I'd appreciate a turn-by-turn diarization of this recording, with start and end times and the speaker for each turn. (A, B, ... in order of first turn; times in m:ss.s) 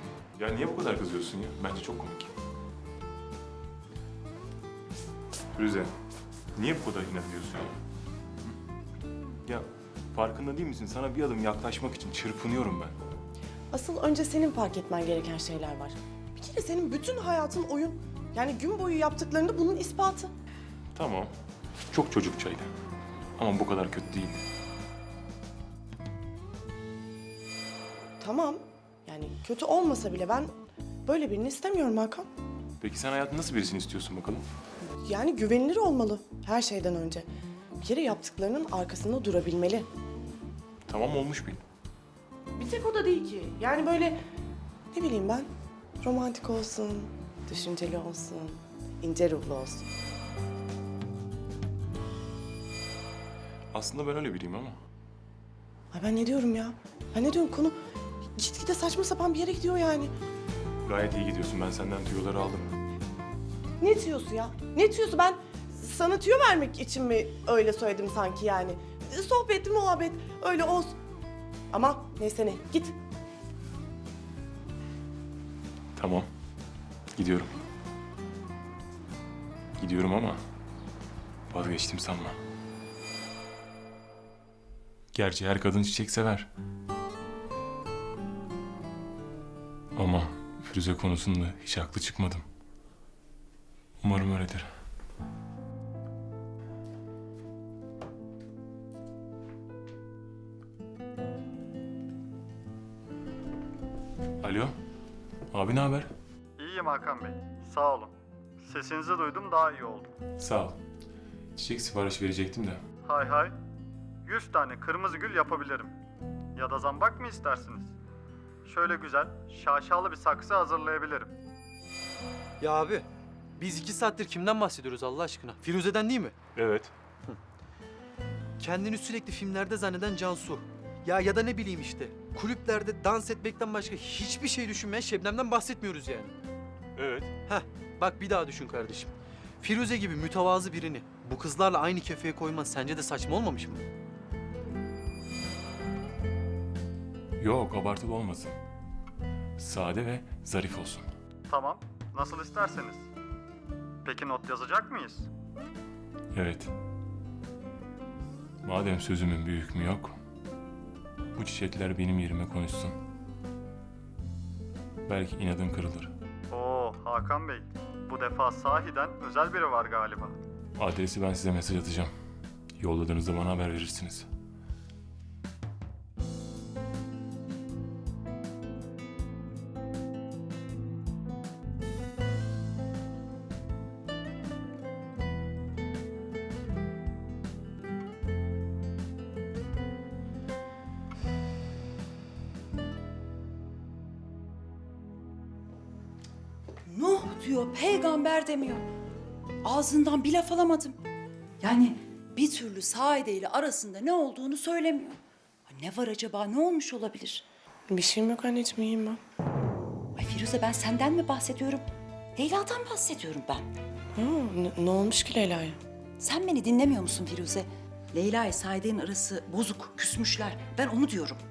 0:00.4-0:02.3 A
0:05.5-0:05.9 A
0:06.5-0:07.8 A
0:09.4-0:13.0 A
0:13.7-0:20.3 B
0:20.9-0:21.3 A
0:21.9-0:22.7 A
0:23.4-0:24.4 A
0:28.2-0:30.5 B
0:31.0-0:32.3 B
0:32.8-0:34.4 A
0:35.0-0:37.3 B
0:37.8-0:39.9 B
0:40.8-0:41.6 A
0:42.5-0:44.2 B
0:44.9-0:45.5 B
0:46.0-0:49.9 B
0:53.7-0:54.8 A
0:55.9-0:57.8 B
0:58.4-1:00.1 B
1:00.8-1:02.7 A
1:03.8-1:10.9 B
1:11.7-1:13.0 B
1:16.0-1:16.3 A
1:17.2-1:17.6 A
1:19.8-1:20.4 A
1:21.5-1:22.4 A
1:25.1-1:26.5 A
1:29.9-1:32.4 A
1:34.0-1:34.7 A
1:44.4-1:44.7 A
1:45.5-1:46.1 A
1:46.6-1:48.1 C
1:48.6-1:50.1 C
1:50.4-1:50.8 A
1:51.6-1:52.8 A
1:53.0-1:53.5 C
1:54.2-1:55.9 C
1:56.6-1:57.9 C
1:58.6-2:01.3 C
2:02.6-2:06.3 D
2:06.5-2:06.9 A
2:08.6-2:16.3 D
2:17.0-2:17.3 A
2:17.4-2:23.8 D
2:27.4-2:28.6 A
2:29.6-2:31.1 A
2:31.5-2:33.1 C
2:34.0-2:35.3 C
2:36.3-2:36.7 A
2:38.6-2:40.2 A
2:41.4-2:43.0 A
2:45.1-2:46.1 A
2:46.5-2:50.3 C
2:50.8-2:52.1 A
2:52.8-2:54.3 A
3:16.8-3:18.8 E
3:19.6-3:21.0 E
3:21.6-3:27.4 E
3:27.9-3:29.2 B
3:30.1-3:33.7 E
3:34.1-3:35.8 B
3:36.2-3:41.4 E